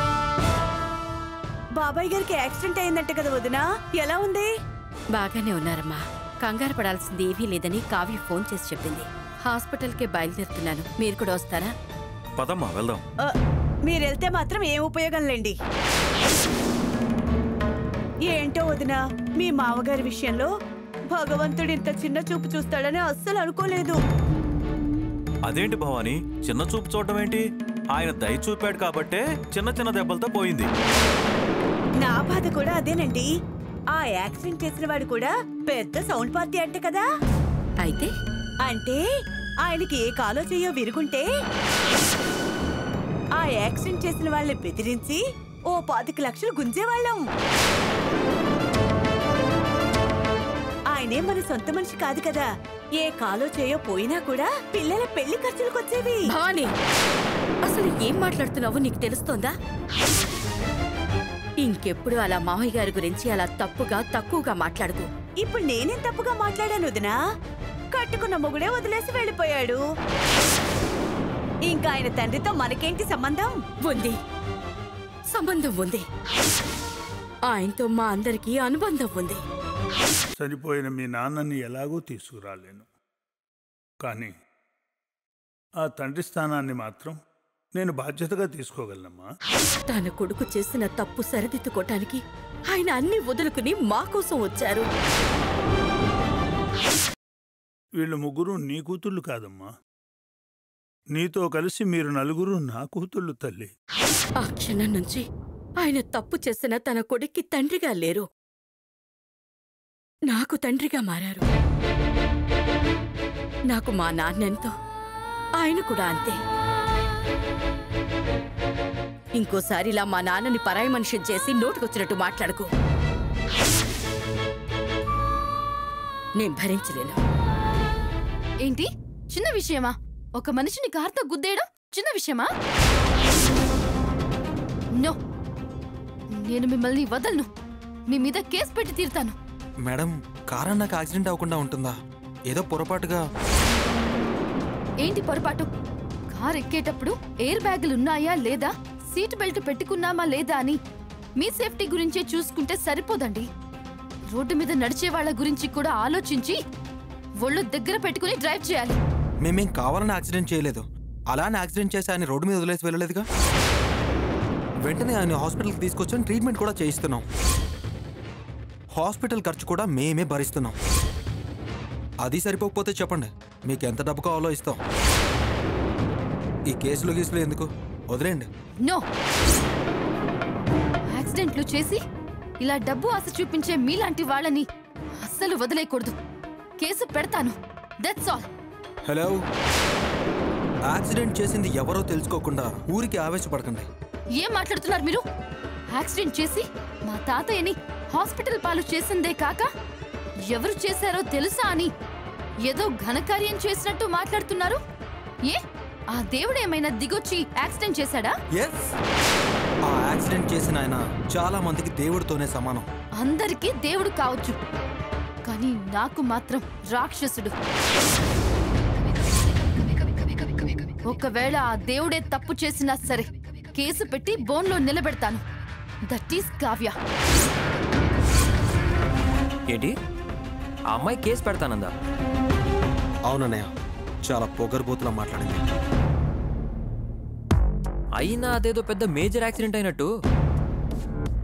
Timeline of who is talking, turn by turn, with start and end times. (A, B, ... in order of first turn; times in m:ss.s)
0:01.8-0:04.5 A
0:05.1-0:11.7 B
0:12.4-0:13.0 C
0:13.2-0:15.6 A
0:18.2-0:20.5 A
0:21.1-0:24.0 A
0:25.4-0:30.7 C
0:32.0-0:33.3 A
0:33.9-0:37.1 A
0:37.8-0:38.1 B
0:38.6-0:39.0 A
0:39.6-0:41.3 A
0:43.4-0:47.2 A
0:50.9-0:52.5 A
0:53.0-0:56.3 A
0:56.3-0:56.7 B
0:57.6-0:59.5 B
1:01.6-1:05.1 B
1:05.4-1:07.2 A
1:07.9-1:09.8 A
1:11.7-1:13.6 A
1:13.8-1:14.2 B
1:15.3-1:16.0 B
1:17.5-1:19.4 B
1:20.4-1:22.9 D
1:24.0-1:24.3 D
1:25.8-1:27.2 D
1:27.8-1:29.3 D
1:29.9-1:32.2 B
1:32.7-1:34.9 B
1:38.0-1:39.7 D
1:41.1-1:43.7 D
1:44.4-1:45.2 B
1:45.8-1:48.3 B
1:50.3-1:51.4 B
1:53.7-1:54.7 B
1:55.6-1:56.4 B
1:59.4-2:02.7 B
2:06.4-2:07.2 B
2:08.6-2:12.5 E
2:16.4-2:17.5 E
2:18.1-2:19.4 E
2:19.8-2:21.9 F
2:22.5-2:23.2 F
2:25.0-2:25.7 E
2:26.3-2:30.8 E
2:31.4-2:33.4 E
2:34.3-2:36.6 E
2:37.4-2:39.0 E
2:39.4-2:43.2 F
2:44.8-2:47.2 F
2:49.0-2:50.7 F
2:52.2-2:54.8 F
2:56.7-2:58.5 F
3:01.1-3:02.0 E
3:02.6-3:04.7 E
3:05.2-3:06.1 E
3:06.8-3:08.5 E
3:09.0-3:09.4 F
3:10.9-3:13.9 F
3:14.4-3:15.2 E
3:15.9-3:19.7 E
3:20.5-3:21.9 E
3:22.7-3:24.8 E
3:26.1-3:28.3 E
3:28.6-3:28.9 F
3:29.8-3:32.9 F
3:33.2-3:34.6 E
3:35.5-3:37.5 E
3:41.1-3:45.4 E
3:46.1-3:46.9 E
3:49.7-3:49.9 G
3:50.9-3:51.9 G
3:53.3-3:53.7 F
3:54.3-3:55.6 F
3:58.2-4:00.1 G